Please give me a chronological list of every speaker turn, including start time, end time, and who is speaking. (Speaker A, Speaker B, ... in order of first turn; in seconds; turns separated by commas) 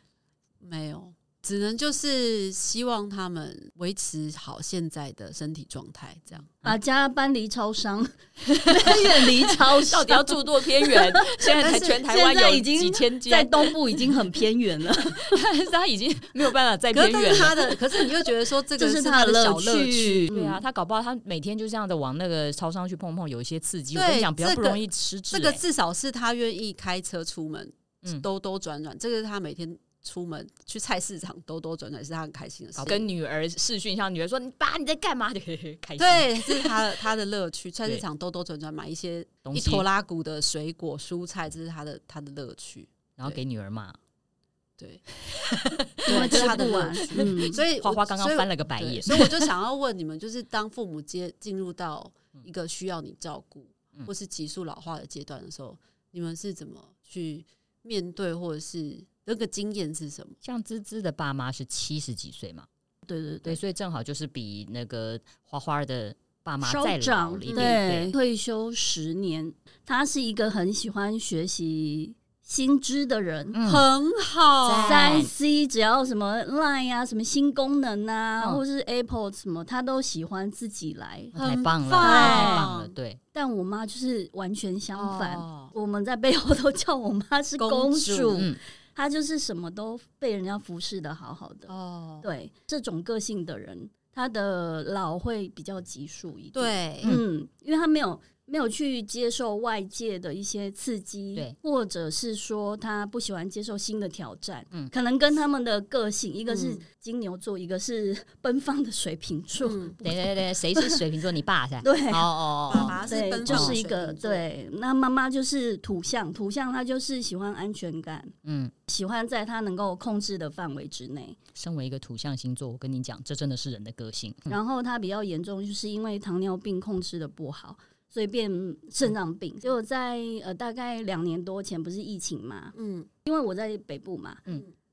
Speaker A: 0.6-6.5, Speaker B: 6.6-15.4, Speaker C: 8.4-14.1, Speaker A: 11.6-11.9, Speaker C: 15.1-17.7, Speaker A: 16.9-20.3, Speaker B: 18.8-20.6, Speaker C: 20.3-25.6, Speaker A: 23.9-33.0, Speaker C: 32.8-36.8, Speaker A: 36.0-43.4, Speaker C: 39.4-39.8, Speaker C: 43.2-44.0, Speaker A: 44.8-45.0, Speaker C: 45.2-49.5, Speaker A: 46.0-60.4, Speaker B: 46.1-47.6, Speaker C: 60.4-62.7, Speaker B: 63.0-63.6, Speaker C: 63.4-68.1, Speaker B: 66.6-73.6, Speaker A: 67.4-67.8, Speaker C: 73.5-73.8, Speaker A: 73.6-75.3, Speaker C: 74.6-75.3, Speaker B: 74.9-81.3, Speaker A: 81.3-82.9, Speaker C: 81.3-83.2, Speaker B: 82.0-82.7, Speaker B: 83.3-91.7, Speaker A: 84.9-85.7, Speaker A: 87.6-88.5, Speaker A: 91.7-92.2, Speaker B: 92.2-111.0, Speaker A: 96.5-97.1, Speaker A: 106.5-106.8, Speaker A: 109.6-110.0, Speaker C: 110.0-113.8, Speaker B: 111.8-118.3, Speaker A: 112.7-114.4, Speaker C: 118.4-118.7, Speaker B: 118.9-121.4, Speaker C: 121.5-124.6, Speaker B: 124.5-134.4, Speaker A: 132.7-133.1